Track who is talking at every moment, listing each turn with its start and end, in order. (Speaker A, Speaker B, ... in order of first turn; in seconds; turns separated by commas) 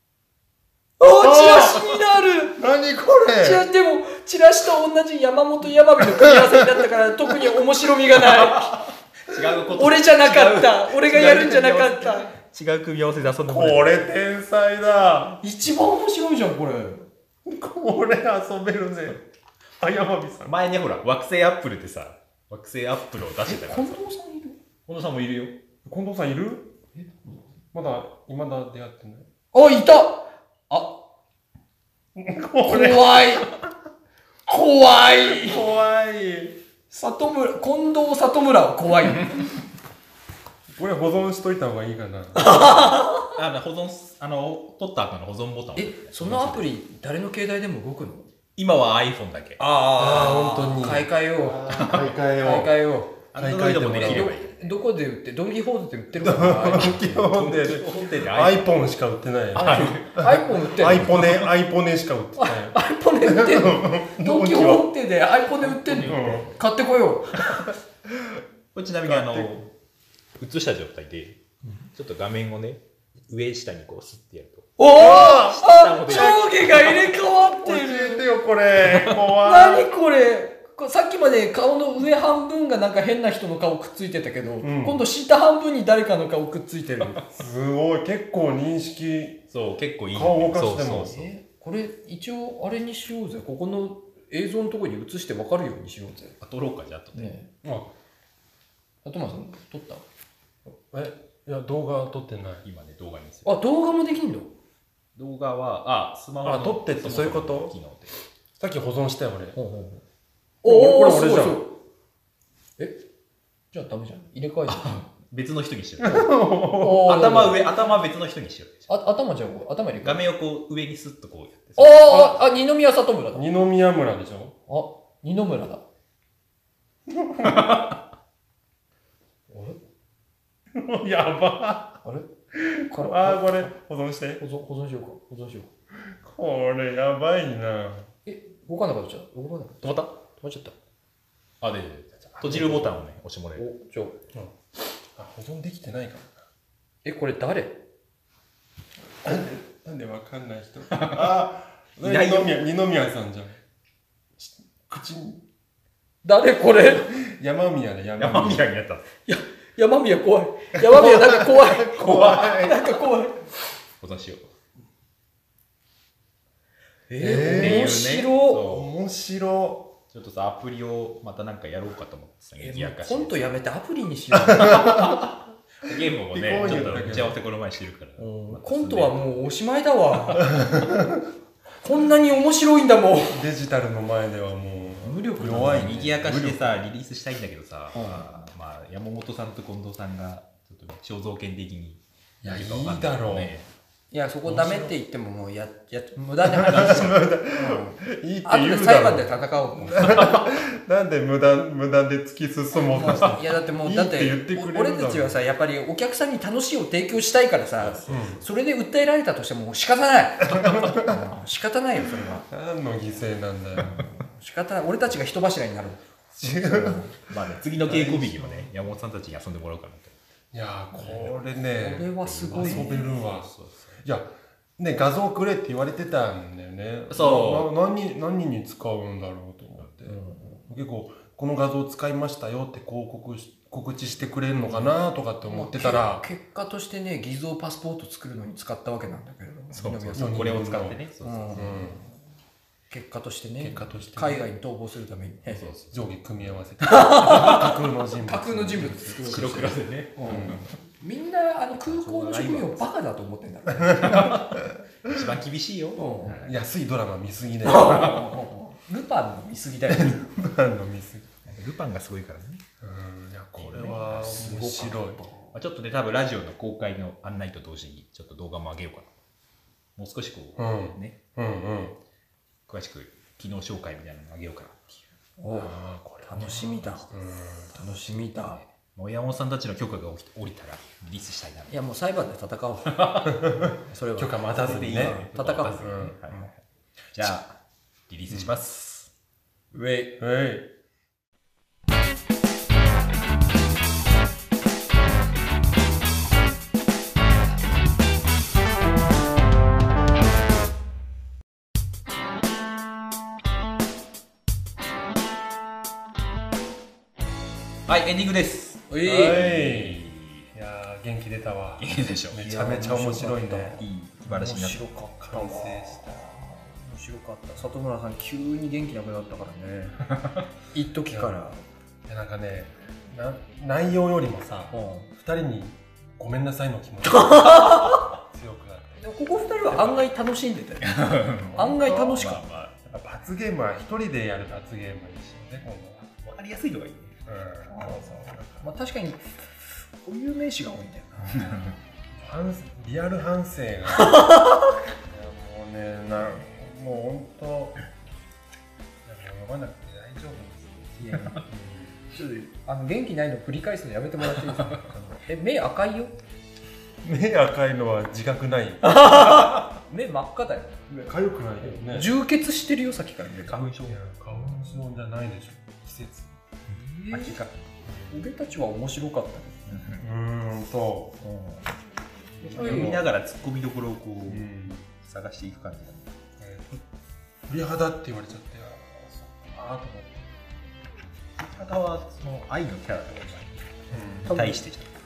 Speaker A: 1.0-2.6, Speaker B: 1.2-1.9, Speaker B: 2.6-3.6, Speaker A: 3.4-8.8, Speaker B: 6.2-6.6, Speaker C: 8.2-14.0, Speaker A: 9.7-12.3, Speaker B: 13.5-15.4, Speaker A: 15.4-17.1, Speaker B: 17.4-19.2, Speaker B: 19.8-20.6, Speaker C: 20.5-24.0, Speaker A: 23.5-24.6, Speaker C: 24.9-25.6, Speaker B: 25.9-26.7, Speaker B: 27.7-29.3, Speaker A: 29.5-31.0, Speaker B: 32.1-33.5, Speaker A: 32.6-33.5, Speaker A: 34.5-35.6, Speaker B: 35.3-36.6, Speaker A: 36.9-39.4, Speaker B: 40.8-42.5, Speaker A: 42.4-43.3, Speaker C: 43.2-46.7, Speaker A: 45.8-48.3, Speaker C: 48.6-49.6, Speaker A: 49.6-53.2, Speaker B: 49.9-54.3, Speaker C: 51.7-52.1, Speaker C: 53.3-54.8, Speaker A: 54.0-57.3, Speaker B: 56.2-64.9, Speaker C: 56.8-58.7, Speaker A: 59.5-61.2, Speaker C: 59.5-61.5, Speaker A: 62.4-67.5, Speaker C: 65.6-66.6, Speaker B: 66.0-66.5, Speaker C: 67.4-67.7, Speaker C: 68.7-69.7, Speaker B: 69.1-69.5, Speaker C: 70.4-71.4, Speaker C: 71.9-77.0, Speaker A: 74.8-78.3, Speaker B: 74.9-76.5, Speaker B: 77.3-79.9, Speaker C: 78.8-79.2, Speaker A: 79.4-87.2, Speaker B: 84.6-85.0, Speaker B: 87.3-89.4, Speaker C: 89.5-91.3, Speaker B: 90.1-91.2, Speaker A: 91.1-96.4, Speaker C: 96.4-97.3, Speaker A: 97.1-97.5, Speaker B: 97.6-97.9, Speaker A: 99.0-100.0, Speaker B: 100.7-102.7, Speaker C: 102.7-103.5, Speaker A: 103.5-104.5, Speaker C: 105.2-108.1, Speaker B: 106.4-107.7, Speaker B: 108.6-109.6, Speaker A: 109.5-110.0, Speaker A: 110.6-111.7, Speaker B: 110.6-111.6, Speaker A: 113.7-115.1, Speaker C: 114.7-116.3, Speaker B: 116.0-117.1, Speaker A: 116.0-117.6, Speaker C: 117.0-118.9, Speaker A: 118.9-120.2, Speaker C: 120.0-122.3, Speaker A: 121.8-123.4, Speaker B: 123.3-124.6, Speaker A: 124.7-125.8, Speaker B: 127.1-127.9, Speaker C: 127.5-127.9, Speaker A: 129.5-129.8, Speaker B: 130.7-132.0, Speaker A: 132.0-132.3, Speaker B: 132.5-134.4, Speaker A: 132.9-133.7, Speaker A: 134.4-135.7, Speaker B: 136.2-138.1, Speaker A: 138.3-140.8, Speaker C: 141.6-143.7, Speaker A: 142.5-142.9, Speaker A: 143.6-144.2, Speaker B: 145.2-146.4, Speaker A: 147.0-147.8, Speaker B: 149.2-153.6, Speaker C: 150.9-151.5, Speaker C: 152.0-152.6, Speaker B: 154.4-155.4, Speaker A: 156.2-157.1, Speaker B: 157.1-158.7, Speaker C: 158.2-159.1, Speaker A: 159.3-163.4, Speaker B: 160.8-162.8, Speaker C: 162.0-162.5, Speaker C: 164.0-164.5, Speaker A: 167.1-168.7, Speaker B: 167.2-168.0, Speaker C: 167.3-168.9, Speaker B: 168.6-169.9, Speaker C: 170.1-173.5, Speaker A: 172.6-175.0, Speaker B: 174.5-175.2, Speaker C: 174.6-175.3, Speaker C: 175.8-179.3, Speaker B: 176.3-177.4, Speaker A: 176.5-177.0, Speaker A: 178.2-180.6, Speaker B: 180.4-181.2, Speaker A: 181.8-183.4, Speaker B: 183.3-186.8, Speaker A: 185.0-186.1, Speaker C: 185.4-193.7, Speaker A: 187.9-188.3, Speaker B: 192.4-193.5, Speaker A: 194.1-197.9, Speaker B: 194.4-194.9, Speaker B: 196.4-205.4, Speaker C: 196.6-197.2, Speaker A: 198.4-200.3, Speaker C: 200.1-200.4, Speaker A: 202.9-212.5, Speaker C: 207.8-208.3, Speaker B: 208.1-208.4, Speaker B: 210.4-211.2, Speaker B: 212.5-214.0, Speaker C: 213.8-214.1, Speaker A: 213.9-217.1, Speaker B: 216.3-217.2, Speaker C: 216.6-220.2, Speaker B: 217.8-218.7, Speaker B: 220.5-223.5, Speaker C: 221.0-221.3, Speaker A: 221.7-223.1, Speaker C: 222.2-224.0, Speaker B: 224.0-236.2, Speaker C: 227.1-227.7, Speaker A: 230.1-230.7, Speaker A: 235.4-240.6, Speaker C: 239.7-241.9, Speaker B: 240.2-241.0, Speaker A: 241.2-242.0, Speaker B: 241.6-242.0, Speaker A: 242.9-245.7, Speaker B: 243.6-244.5, Speaker C: 245.5-246.6, Speaker B: 245.9-249.2, Speaker A: 246.8-254.5, Speaker C: 248.9-250.7, Speaker B: 250.2-250.7, Speaker C: 251.9-252.9, Speaker B: 253.8-254.4, Speaker C: 254.0-256.4, Speaker A: 256.0-256.5, Speaker B: 256.3-258.2, Speaker A: 257.6-260.2, Speaker B: 259.9-261.4, Speaker C: 261.5-262.6, Speaker B: 262.8-265.2, Speaker C: 263.6-264.7, Speaker A: 263.8-265.5, Speaker C: 265.5-269.1, Speaker C: 270.0-271.2, Speaker B: 270.6-272.0, Speaker C: 272.7-275.0, Speaker A: 275.4-277.1, Speaker B: 275.5-277.7, Speaker C: 276.4-277.1, Speaker C: 277.7-281.7, Speaker A: 277.8-278.6, Speaker A: 281.7-283.1, Speaker C: 282.9-283.7, Speaker B: 283.3-286.2, Speaker A: 283.9-286.5, Speaker C: 284.5-286.5, Speaker C: 287.1-287.6, Speaker C: 288.1-289.1, Speaker A: 289.7-290.2, Speaker B: 290.2-290.7, Speaker C: 307.9-310.5, Speaker A: 308.9-309.4, Speaker B: 309.1-313.8, Speaker C: 311.8-312.6, Speaker A: 312.4-320.0, Speaker C: 313.8-314.9, Speaker B: 315.2-316.2, Speaker C: 320.1-320.4, Speaker A: 320.7-321.6, Speaker B: 321.1-321.4, Speaker B: 322.1-327.8, Speaker A: 324.7-325.1, Speaker A: 327.1-328.1, Speaker B: 328.3-329.0, Speaker A: 329.0-332.4, Speaker C: 330.8-332.8, Speaker B: 332.9-336.1, Speaker C: 336.2-337.2, Speaker B: 337.3-338.7, Speaker A: 337.7-338.1, Speaker A: 338.6-339.2, Speaker A: 340.0-341.6, Speaker C: 341.3-341.8, Speaker B: 342.2-344.3, Speaker A: 344.1-344.5, Speaker B: 345.1-347.8, Speaker B: 349.1-352.0, Speaker A: 351.0-351.3, Speaker C: 351.1-351.4, Speaker A: 352.1-356.1, Speaker C: 354.6-355.0, Speaker B: 357.0-358.9, Speaker A: 358.8-363.6, Speaker C: 359.1-359.6, Speaker B: 361.1-362.1, Speaker C: 363.5-364.1, Speaker B: 363.9-366.3, Speaker C: 366.7-367.5, Speaker A: 366.7-367.5, Speaker B: 367.9-368.3, Speaker A: 368.1-369.6, Speaker C: 369.7-370.1, Speaker B: 370.0-371.2, Speaker C: 371.2-371.7, Speaker A: 372.4-373.0, Speaker B: 372.4-373.1, Speaker C: 372.5-376.2, Speaker B: 374.3-374.9, Speaker B: 376.4-376.8, Speaker B: 377.5-380.4, Speaker C: 381.4-384.9, Speaker B: 383.9-384.4, Speaker A: 384.3-384.6